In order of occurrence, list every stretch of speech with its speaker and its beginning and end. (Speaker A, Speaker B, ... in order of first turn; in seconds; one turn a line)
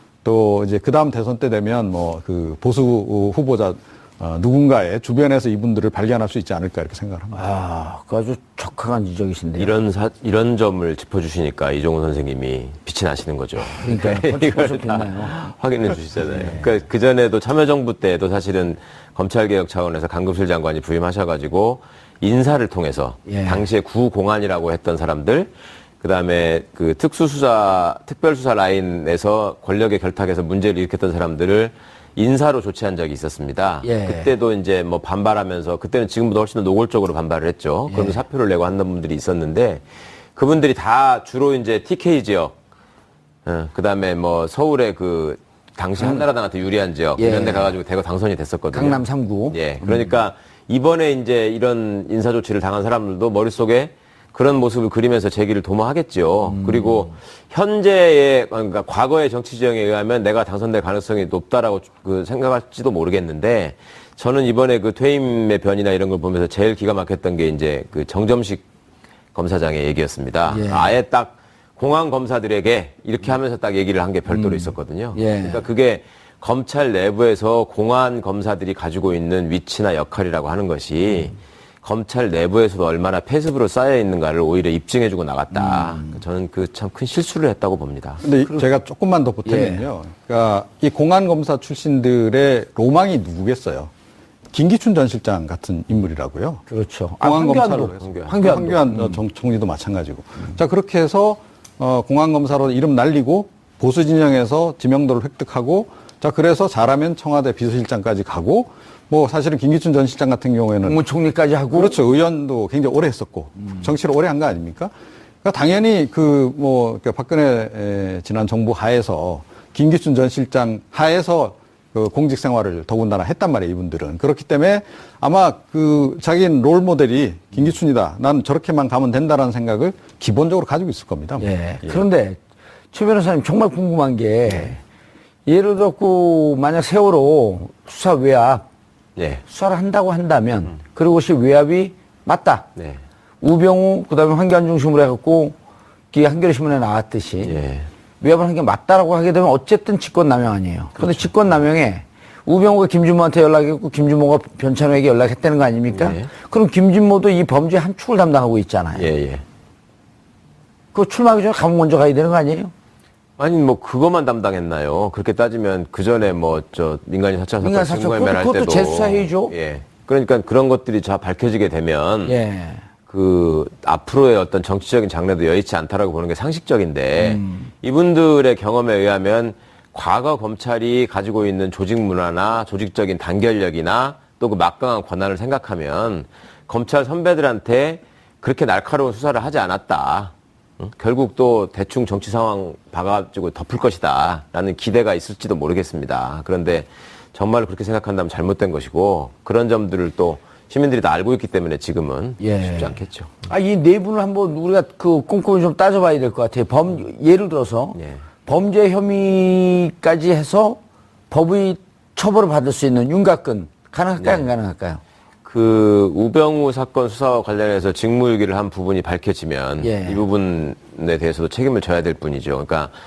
Speaker A: 0.2-7.4
Speaker B: 7.3-9.7
Speaker C: 9.6-42.5
Speaker B: 13.8-15.5
Speaker B: 16.1-16.8
Speaker B: 23.3-23.7
Speaker B: 33.8-34.3
Speaker B: 37.9-38.2
Speaker C: 43.5-68.6
Speaker B: 46.0-46.2
Speaker B: 47.2-47.7
Speaker B: 48.7-50.2
Speaker B: 56.5-57.1
Speaker C: 69.3-88.2
Speaker B: 70.5-71.0
Speaker B: 74.3-75.7
Speaker B: 85.5-86.2
Speaker A: 88.2-93.9
Speaker B: 89.5-89.9
Speaker A: 94.5-96.6
Speaker B: 96.7-99.2
Speaker A: 97.2-111.0
Speaker C: 98.0-98.4
Speaker B: 110.8-112.0
Speaker A: 111.7-114.9
Speaker A: 115.4-132.1
Speaker B: 131.4-132.4
Speaker B: 132.9-134.8
Speaker C: 134.5-134.7
Speaker B: 135.5-138.6
Speaker C: 139.2-139.4
Speaker B: 139.5-142.7
Speaker B: 143.4-145.6
Speaker B: 146.1-147.6
Speaker C: 147.4-147.9
Speaker B: 148.2-159.1
Speaker C: 151.0-151.3
Speaker C: 155.9-156.3
Speaker C: 158.9-159.4
Speaker B: 160.9-162.7
Speaker C: 163.4-172.3
Speaker B: 167.6-169.5
Speaker B: 172.2-172.8
Speaker C: 173.1-203.4
Speaker B: 177.2-177.7
Speaker B: 202.4-215.0
Speaker C: 208.0-208.2
Speaker C: 214.2-214.5
Speaker C: 215.4-222.9
Speaker B: 219.8-220.2